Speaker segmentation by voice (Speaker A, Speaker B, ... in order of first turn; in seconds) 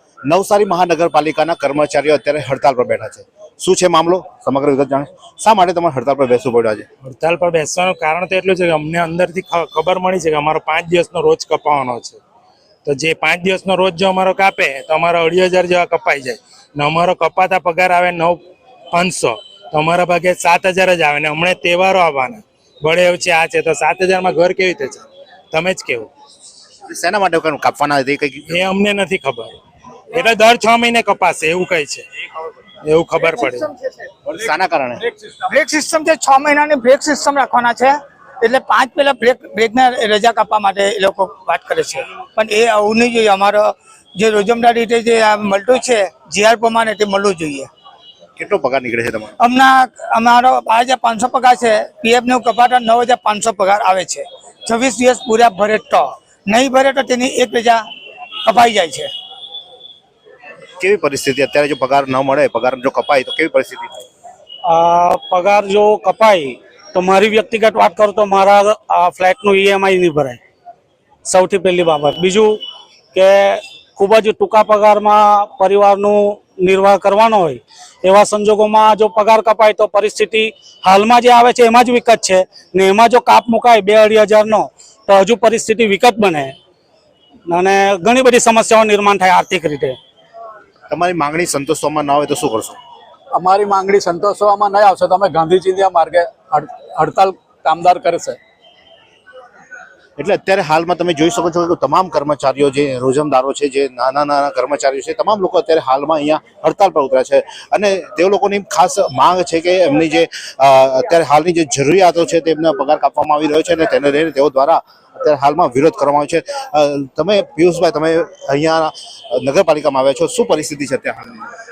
Speaker A: 0.3-6.9, 26.9-28.6, 34.3-35.0, 48.4-49.4, 60.8-64.0, 90.9-92.8, 100.2-121.5
Speaker B: 7.0-12.2, 12.8-26.1, 28.5-29.6, 30.1-32.0, 32.8-33.7
Speaker C: 35.5-43.6, 44.1-47.7, 49.4-57.8, 58.5-59.1
Speaker D: 64.7-70.4, 71.2-72.6, 73.1-86.5, 87.5-90.0
Speaker E: 93.3-98.4